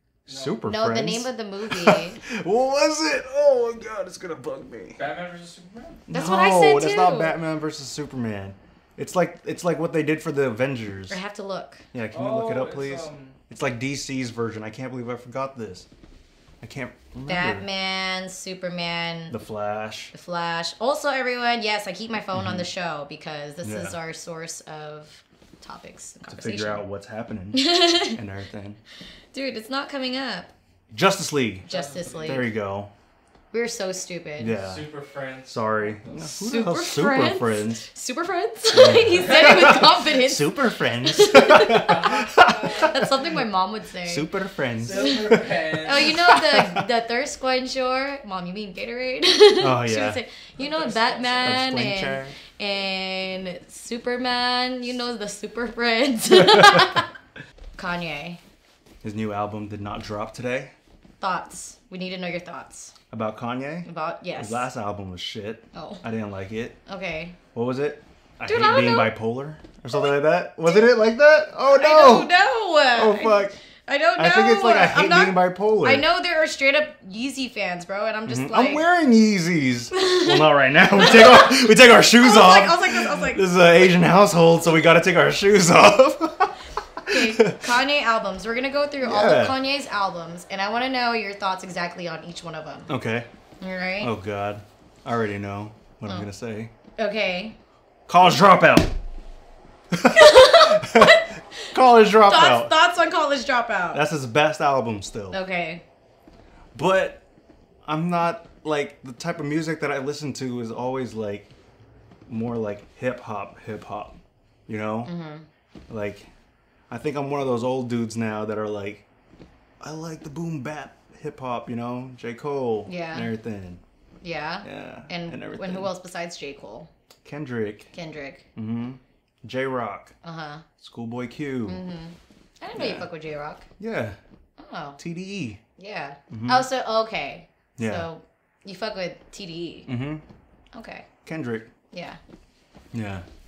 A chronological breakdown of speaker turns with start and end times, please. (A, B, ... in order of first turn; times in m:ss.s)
0:00.2-0:00.6 A
0:00.3-0:05.0 B
0:00.7-0:02.2 C
0:05.0-0:06.0 A
0:06.1-0:11.2 B
0:06.1-0:07.4 C
0:11.1-0:11.8 C
0:11.9-0:15.9 B
0:12.1-0:13.4 A
0:16.6-0:17.6 B
0:17.3-0:19.4 C
0:19.3-0:20.1 B
0:20.1-0:26.9 C
0:22.3-0:22.7 B
0:23.6-0:24.0 B
0:26.3-0:28.8 B
0:27.5-0:28.2 C
0:29.3-0:30.5 C
0:30.9-0:31.7 B
0:31.7-0:32.5 C
0:31.7-0:32.5 A
0:32.2-0:32.9 B
0:33.5-0:34.6 C
0:34.4-0:34.9 B
0:34.6-0:36.2 A
0:35.5-0:37.9 B
0:36.4-0:42.2 C
0:38.7-0:43.0 B
0:39.1-0:39.7 A
0:41.8-0:43.1 A
0:42.8-0:44.3 C
0:44.0-0:46.8 B
0:44.8-0:46.2 A
0:44.9-0:57.1 C
0:49.6-0:50.2 B
0:50.6-0:51.7 A
0:51.4-0:52.4 B
0:57.8-0:58.4 C
0:59.0-1:00.7 B
1:01.2-1:02.9 C
1:03.1-1:06.8 B
1:03.9-1:04.7 C
1:05.7-1:06.0 C
1:06.9-1:07.4 C
1:07.5-1:12.3 B
1:08.5-1:09.2 C
1:09.9-1:10.9 C
1:11.7-1:18.8 C
1:12.9-1:13.6 B
1:14.2-1:16.1 B
1:18.3-1:27.7 B
1:19.9-1:23.5 C
1:27.1-1:32.9 C
1:29.0-1:29.6 B
1:32.9-1:33.3 B
1:33.6-1:34.1 C
1:34.0-1:36.7 B
1:37.0-1:37.6 C
1:38.1-1:38.9 B
1:39.9-1:42.7 B
1:40.1-1:44.0 C
1:43.9-1:45.4 B
1:45.3-1:45.8 C
1:46.8-1:47.2 B
1:47.8-1:51.5 B
1:52.3-1:55.1 B
1:55.0-1:55.5 C
1:55.9-1:56.3 B
1:56.9-1:59.0 B
1:59.8-2:03.8 B
2:02.9-2:03.3 C
2:04.2-2:06.9 C
2:04.6-2:05.9 B
2:07.2-2:07.9 B
2:07.9-2:08.5 C
2:08.5-2:10.1 B
2:10.2-2:10.6 C
2:10.8-2:11.8 B
2:11.6-2:13.6 C
2:12.7-2:13.1 B
2:13.8-2:14.2 B
2:14.6-2:15.0 C
2:15.0-2:15.6 B
2:15.8-2:19.9 C
2:16.3-2:16.7 B
2:17.8-2:18.1 B
2:19.9-2:20.2 B
2:20.7-2:21.1 C
2:21.2-2:21.7 B
2:21.9-2:22.2 C
2:22.9-2:23.2 B